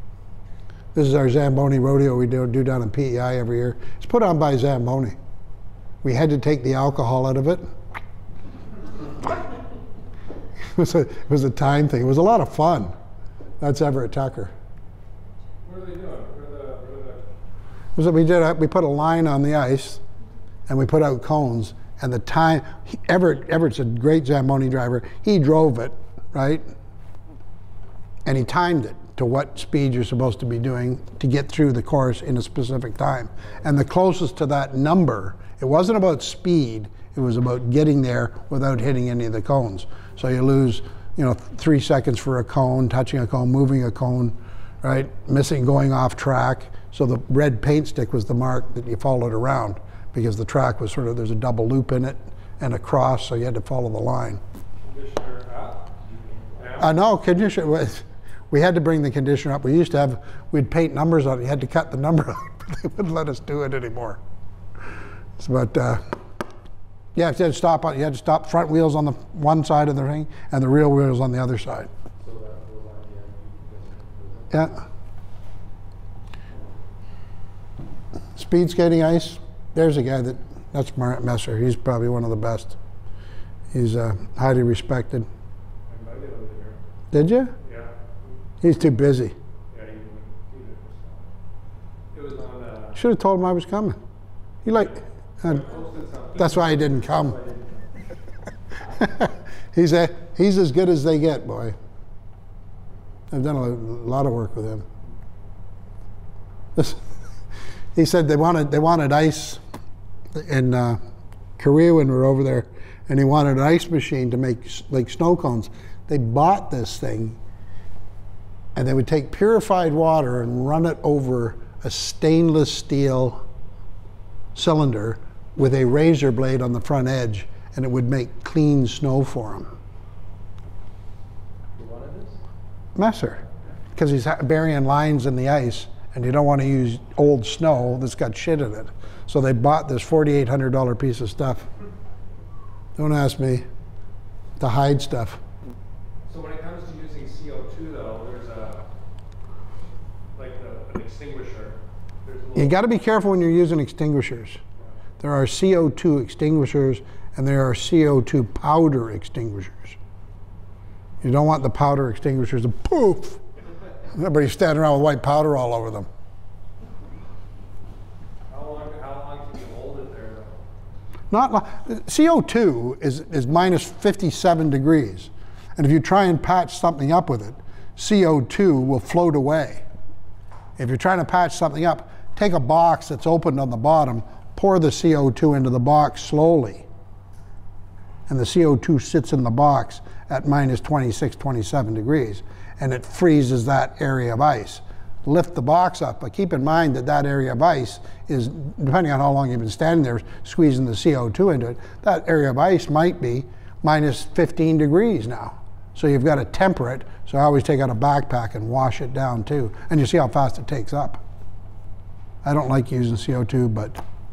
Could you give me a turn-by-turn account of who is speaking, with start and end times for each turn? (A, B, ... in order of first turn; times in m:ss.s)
0:01.0-0:05.2 A
0:06.0-0:07.7 A
0:10.6-0:12.9 A
0:13.6-0:14.5 A
0:15.6-0:17.3 B
0:18.0-0:20.0 A
0:20.7-0:26.7 A
0:28.2-0:54.4 A
0:54.8-0:55.9 B
0:56.1-0:56.8 C
0:56.5-0:57.0 B
0:56.8-1:04.2 A
1:05.4-1:06.1 A
1:07.2-1:11.9 A
1:12.2-1:14.7 C
1:14.5-1:14.8 A
1:18.4-1:22.8 A
1:23.7-1:25.3 A
1:25.9-1:26.8 B
1:27.1-1:27.5 A
1:27.6-1:27.9 B
1:28.6-1:29.4 A
1:29.7-1:31.2 B
1:32.1-1:33.0 B
1:33.0-1:34.0 A
1:34.6-1:35.7 A
1:35.4-1:37.8 B
1:36.4-1:37.4 A
1:39.0-1:41.8 A
1:43.3-1:44.8 A
1:46.8-1:47.0 A
1:48.0-1:49.6 A
1:50.3-1:51.0 A
1:51.6-1:57.4 A
1:58.8-2:03.4 A
2:04.6-2:09.7 A
2:11.8-2:12.4 C
2:13.0-2:13.4 A
2:14.0-2:21.7 A
2:23.0-2:23.6 A
2:24.6-2:25.4 A
2:26.3-2:28.9 B
2:30.4-2:32.9 B
2:32.6-2:34.6 A
2:35.2-2:40.0 A
2:41.2-2:43.4 A
2:44.1-2:46.1 A
2:48.5-2:50.6 B
2:51.3-2:59.8 A
3:00.8-3:06.9 A
3:08.3-3:31.2 A
3:32.4-3:34.0 A